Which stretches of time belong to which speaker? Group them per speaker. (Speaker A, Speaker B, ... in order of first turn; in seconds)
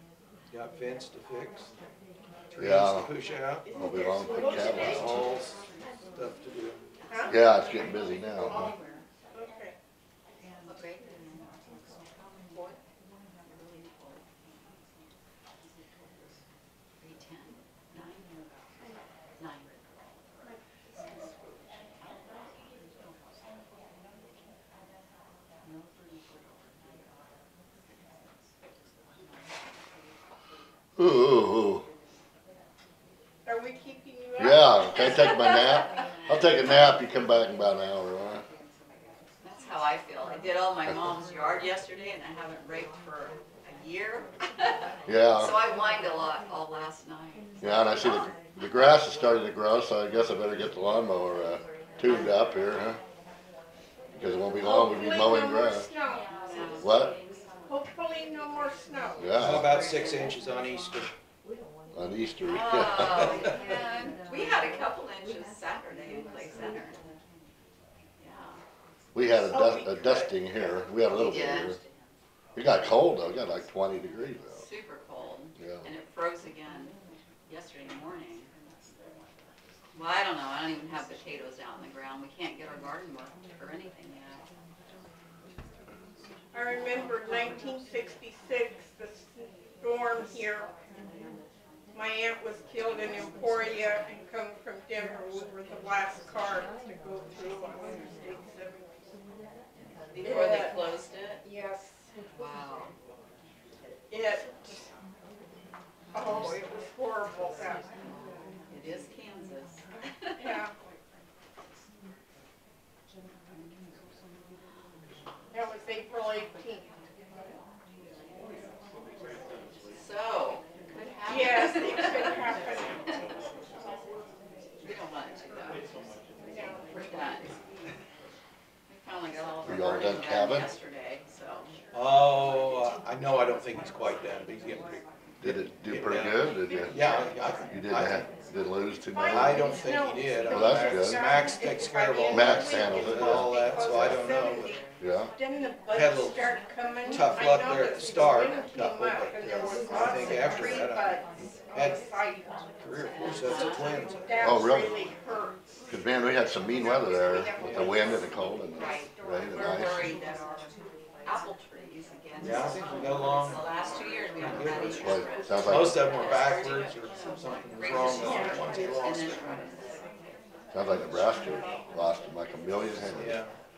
Speaker A: 0.5-1.7, 2.5-3.7, 4.4-5.6, 6.1-6.8, 59.4-61.1, 131.9-138.2, 139.3-144.8, 145.9-152.1, 152.8-154.5, 157.6-158.0, 162.4-163.7, 164.4-169.6, 173.1-173.5
Speaker B: 2.6-3.1, 3.7-5.3, 7.3-8.6, 31.0-31.8, 34.4-38.4, 45.1-45.6, 47.6-53.0, 54.2-55.9, 56.8-57.1, 59.2-59.8, 61.9-63.5, 69.1-71.8, 72.6-74.6, 75.6-75.9, 129.7-130.7, 135.4-137.0, 137.7-139.8, 140.5-141.3, 142.3-144.3, 145.0-145.3, 154.4-155.0, 155.9-160.1, 164.9-166.1, 170.7-173.4
Speaker C: 3.6-5.3, 7.1-7.4, 8.4-9.8, 20.4-21.7, 33.5-35.3, 54.6-56.3, 57.7-59.3, 69.5-70.8, 86.5-90.7, 91.9-98.9, 100.2-102.0, 104.1-104.8, 106.1-107.8, 110.4-110.7, 115.5-116.9, 121.3-124.3, 126.4-127.5, 136.7-137.2, 139.1-144.8, 145.4-155.6, 156.7-160.2, 164.7-165.8, 168.2-169.0, 171.5-171.8
Speaker D: 10.7-11.2, 12.5-12.8, 13.5-14.8, 17.0-18.4, 19.4-19.7, 36.2-36.8, 39.4-47.5, 52.1-52.3, 56.3-57.1, 59.7-60.3, 62.4-67.0, 68.2-68.6, 71.0-72.0, 74.6-77.0, 77.5-78.5, 79.9-84.4, 100.1-101.4, 102.4-102.9, 106.2-106.5, 108.7-110.7, 119.9-122.6, 124.8-125.8, 126.9-127.5, 128.9-131.7, 153.0-154.0, 158.8-160.6, 161.2-170.1